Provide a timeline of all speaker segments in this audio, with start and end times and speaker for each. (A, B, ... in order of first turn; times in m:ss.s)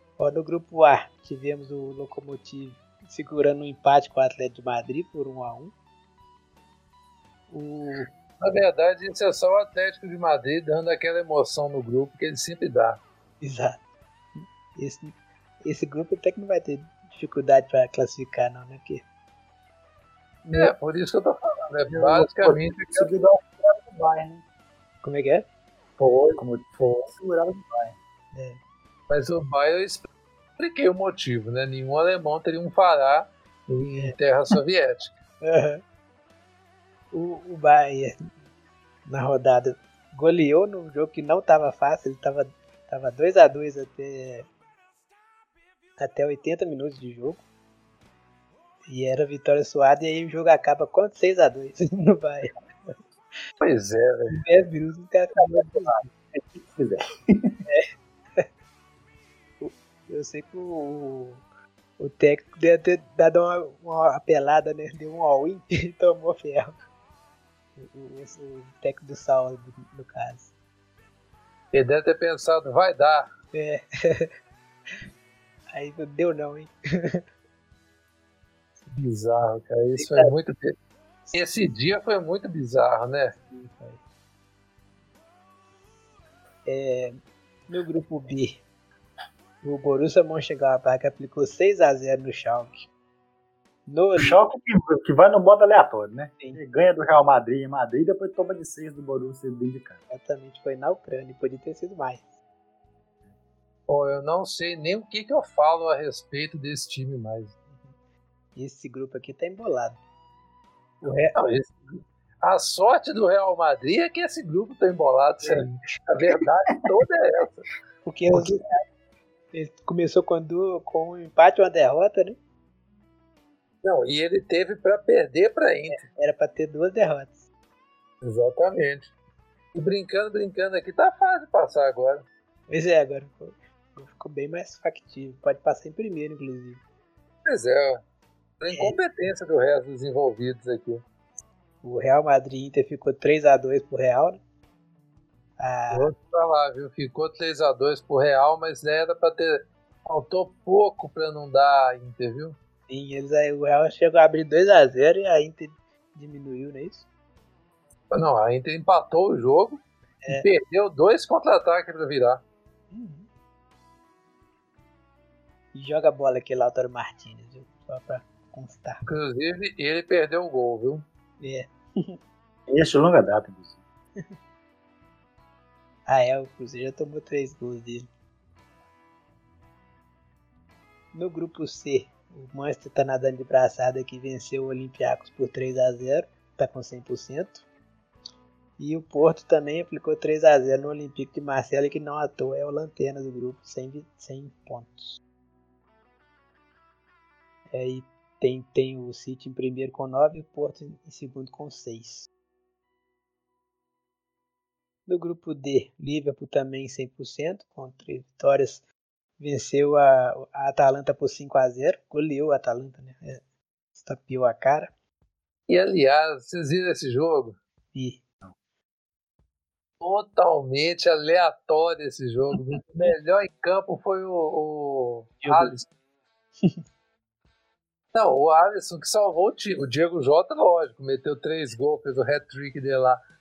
0:00.2-0:05.7 A
0:07.5-0:08.1 A
0:07.9-0:13.0 B
0:13.4-0:13.8 A
0:14.4-0:19.0 A
0:20.4-0:20.7 A
0:20.5-0:23.2 B
0:21.9-0:24.4 C
0:25.0-0:25.4 A
0:26.0-0:27.1 B
0:26.4-0:28.0 C
0:28.3-0:28.6 A
0:29.1-0:30.0 B
0:30.6-0:35.1 B
0:35.4-0:35.8 A
0:37.1-0:38.3 A
0:39.1-0:44.5 A
0:46.0-0:47.4 A
0:48.9-0:52.9 A
0:53.6-0:54.4 B
0:54.3-0:56.0 A
0:55.6-0:57.6 C
0:57.7-0:58.5 A
0:59.6-1:01.4 A
1:02.0-1:06.8 A
1:07.8-1:10.5 A
1:11.7-1:13.3 B
1:13.5-1:14.3 A
1:15.7-1:17.2 A
1:18.9-1:20.7 B
1:20.0-1:20.3 A
1:21.3-1:23.3 B
1:23.5-1:24.0 A
1:26.6-1:28.6 A
1:29.6-1:32.9 A
1:33.9-1:34.4 A
1:34.2-1:40.0 C
1:40.1-1:42.3 A
1:43.9-1:47.6 B
1:48.6-1:50.0 A
1:51.0-1:51.4 A
1:51.3-1:57.7 B
1:58.0-1:58.8 A
1:59.5-2:02.4 A
2:03.8-2:06.1 B
2:05.9-2:07.4 A
2:08.2-2:09.1 B
2:09.7-2:12.2 B
2:12.7-2:16.8 A
2:17.4-2:18.0 B
2:18.6-2:21.0 B
2:21.8-2:24.4 A
2:25.6-2:26.1 A
2:25.9-2:32.6 B
2:32.9-2:37.0 A
2:38.1-2:42.4 B
2:42.9-2:43.3 A
2:45.7-2:49.0 A
2:49.0-2:51.0 B
2:51.4-2:52.2 A
2:52.7-2:53.8 C
2:56.1-2:58.1 A
3:01.1-3:07.6 A
3:08.8-3:15.2 A
3:17.7-3:22.3 A
3:25.1-3:28.8 A
3:29.4-3:33.4 A
3:33.9-3:34.9 A
3:35.7-3:37.6 B
3:37.9-3:38.2 A
3:40.0-3:45.8 B
3:42.5-3:43.1 A
3:45.4-3:45.8 A
3:48.1-3:53.2 B